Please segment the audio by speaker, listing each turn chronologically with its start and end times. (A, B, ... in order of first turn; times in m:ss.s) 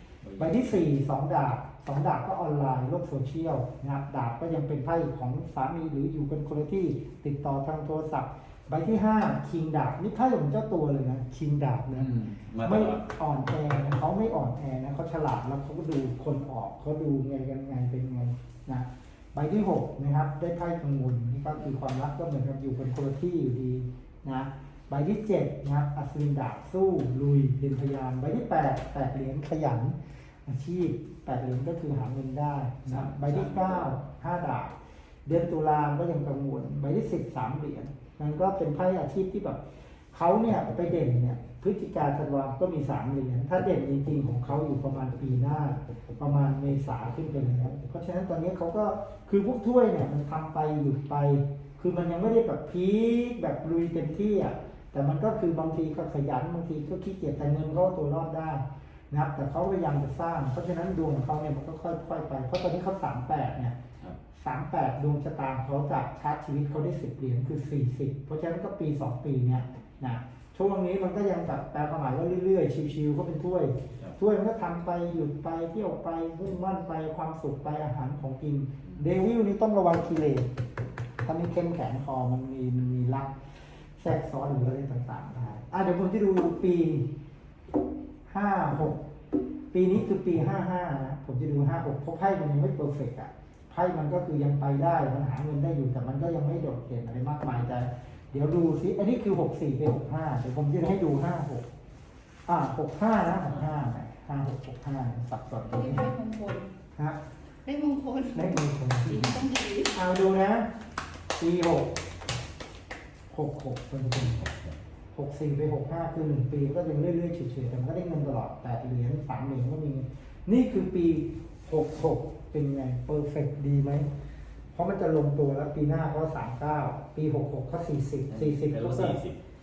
0:00.2-0:00.8 A
0:00.4-0:12.1 B
0:11.9-0:13.0 A
0:12.6-1:03.8 B
0:32.9-0:34.0 A
1:04.3-1:20.5 B
1:21.2-1:27.1 B
1:28.3-1:29.0 B
1:29.7-1:41.7 B
1:42.5-1:46.1 B
1:45.7-1:46.7 C
1:47.6-1:50.0 C
1:48.3-1:49.3 B
1:49.9-1:50.7 B
1:51.4-1:51.9 B
1:53.3-1:54.5 B
1:55.1-2:04.1 B
2:04.8-2:09.2 B
2:08.3-2:09.4 A